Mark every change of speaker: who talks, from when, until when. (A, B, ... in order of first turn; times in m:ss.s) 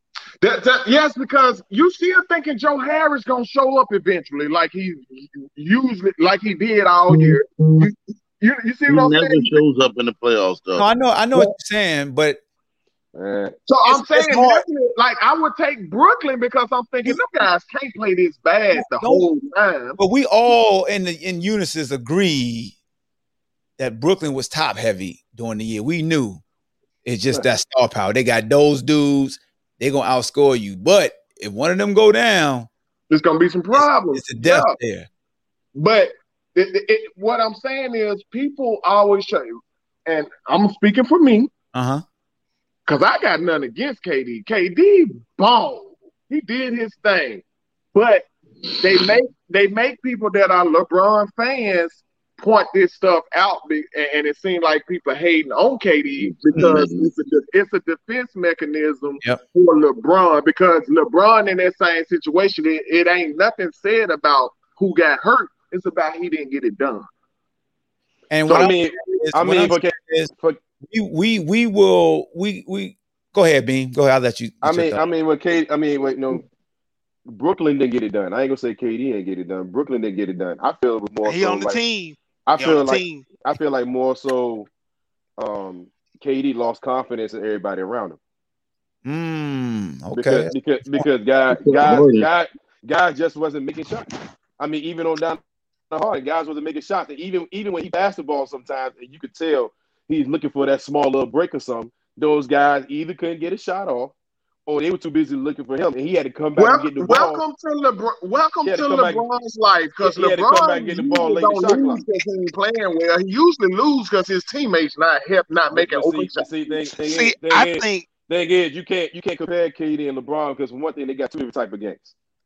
0:00.4-0:09.6 A
0:07.1-0:07.9 B
0:08.9-0:10.9 B
0:10.8-0:12.4 C
0:13.2-0:13.6 D
0:13.7-0:20.0 A
0:13.9-0:14.6 C
0:18.7-0:19.2 C
0:20.0-0:22.7 C
0:23.8-0:26.4 C
0:27.0-0:32.7 C
0:33.1-0:34.8 A
0:33.7-0:35.1 C
0:35.7-0:39.5 A
0:40.0-0:41.5 A
0:41.7-0:42.0 C
0:42.9-0:48.3 A
0:48.7-0:49.1 B
0:48.8-1:07.1 A
0:56.2-0:57.1 B
1:08.3-1:10.3 C
1:08.5-1:10.6 D
1:10.9-1:15.0 C
1:14.6-1:16.4 D
1:17.3-1:21.8 D
1:21.2-1:23.3 E
1:22.5-1:24.7 D
1:25.4-1:28.2 D
1:29.0-1:31.0 C
1:30.1-1:44.1 D
1:31.5-1:32.3 B
1:44.7-1:47.4 D
1:46.6-1:56.6 A
1:48.6-1:49.2 D
1:50.0-1:52.0 D
1:55.7-2:02.1 D
1:57.0-1:58.1 E